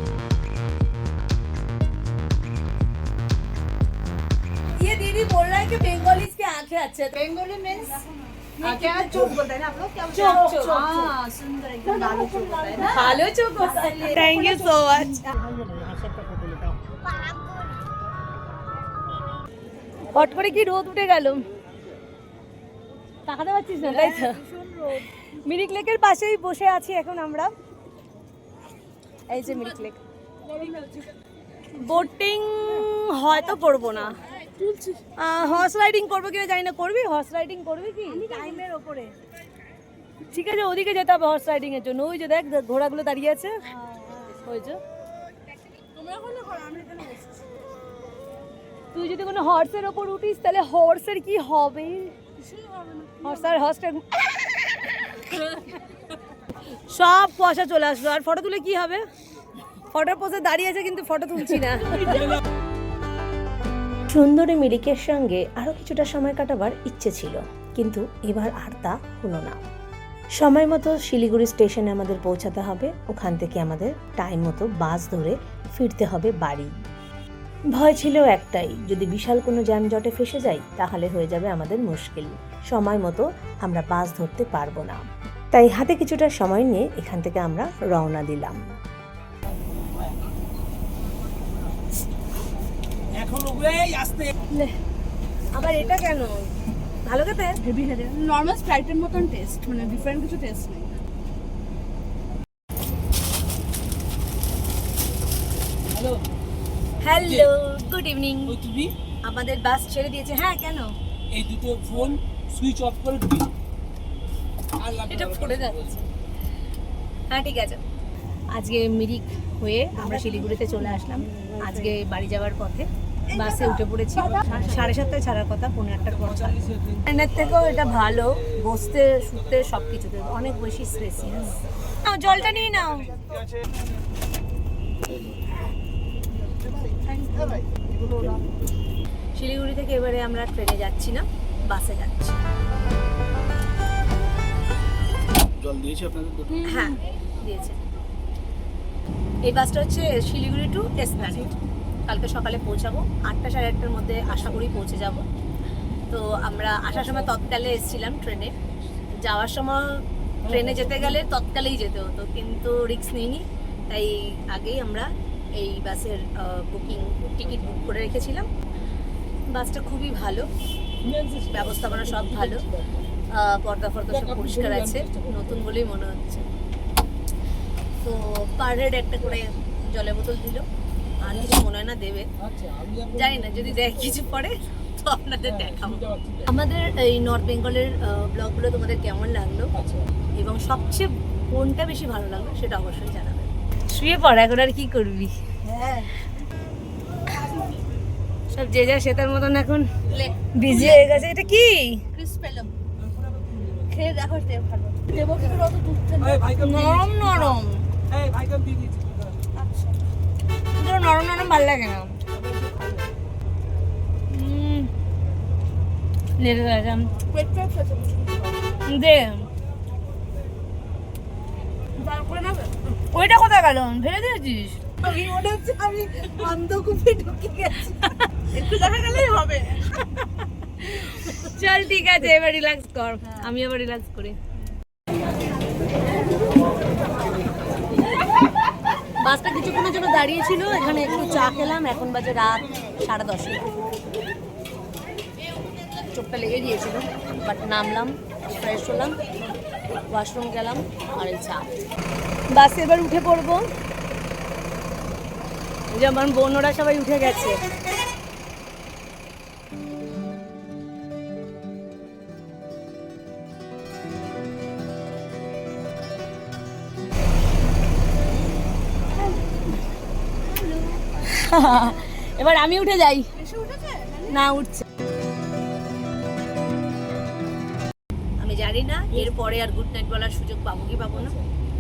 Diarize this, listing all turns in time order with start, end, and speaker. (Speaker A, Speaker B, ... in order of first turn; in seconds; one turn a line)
Speaker A: 4.8-7.5
Speaker B: 7.2-14.8
Speaker A: 8.6-11.2
Speaker C: 10.7-11.1
Speaker A: 11.8-15.3
Speaker A: 20.1-21.4
Speaker A: 23.2-24.4
Speaker B: 23.9-25.0
Speaker A: 25.1-27.5
Speaker A: 29.3-30.0
Speaker B: 30.5-31.1
Speaker A: 31.7-34.2
Speaker B: 34.5-35.0
Speaker A: 35.1-38.6
Speaker B: 38.1-39.1
Speaker A: 40.2-43.6
Speaker B: 43.8-44.4
Speaker A: 44.3-44.8
Speaker B: 45.9-47.4
Speaker A: 48.9-52.2
Speaker B: 52.4-53.5
Speaker A: 53.2-55.8
Speaker A: 56.7-59.0
Speaker A: 59.9-62.4
Speaker A: 64.1-69.6
Speaker A: 70.3-76.7
Speaker A: 77.7-88.6
Speaker C: 93.1-94.3
Speaker A: 94.4-94.7
Speaker A: 95.5-96.5
Speaker A: 97.0-97.6
Speaker B: 97.6-100.9
Speaker A: 107.0-110.9
Speaker C: 108.6-108.9
Speaker C: 111.3-113.5
Speaker A: 114.8-116.1
Speaker C: 114.9-115.1
Speaker A: 117.3-117.8
Speaker A: 118.5-133.1
Speaker B: 137.1-137.6
Speaker A: 139.3-142.4
Speaker C: 145.7-146.5
Speaker A: 146.6-147.8
Speaker A: 149.4-151.5
Speaker A: 152.0-155.3
Speaker A: 156.1-158.5
Speaker A: 159.2-168.5
Speaker A: 169.5-170.5
Speaker C: 171.0-171.5
Speaker A: 171.2-172.8
Speaker A: 173.3-176.5
Speaker A: 178.0-180.7
Speaker A: 181.2-182.3
Speaker C: 182.6-183.1
Speaker A: 182.9-189.7
Speaker A: 190.3-196.1
Speaker A: 198.5-202.1
Speaker B: 202.1-202.7
Speaker C: 203.5-203.9
Speaker B: 203.7-206.5
Speaker C: 206.2-207.2
Speaker A: 206.4-207.9
Speaker C: 208.1-209.2
Speaker A: 210.7-212.2
Speaker A: 214.3-214.9
Speaker A: 216.4-217.1
Speaker B: 217.2-218.4
Speaker A: 218.8-219.5
Speaker B: 222.0-222.7
Speaker A: 223.0-225.3
Speaker B: 225.1-227.9
Speaker A: 227.8-228.6
Speaker B: 228.5-230.0
Speaker A: 230.8-234.4
Speaker A: 239.2-243.7
Speaker A: 246.0-249.2
Speaker A: 250.1-251.7
Speaker A: 252.5-253.7
Speaker A: 255.9-257.6
Speaker A: 270.5-273.3
Speaker B: 273.4-274.3
Speaker A: 274.3-274.8
Speaker A: 278.4-281.4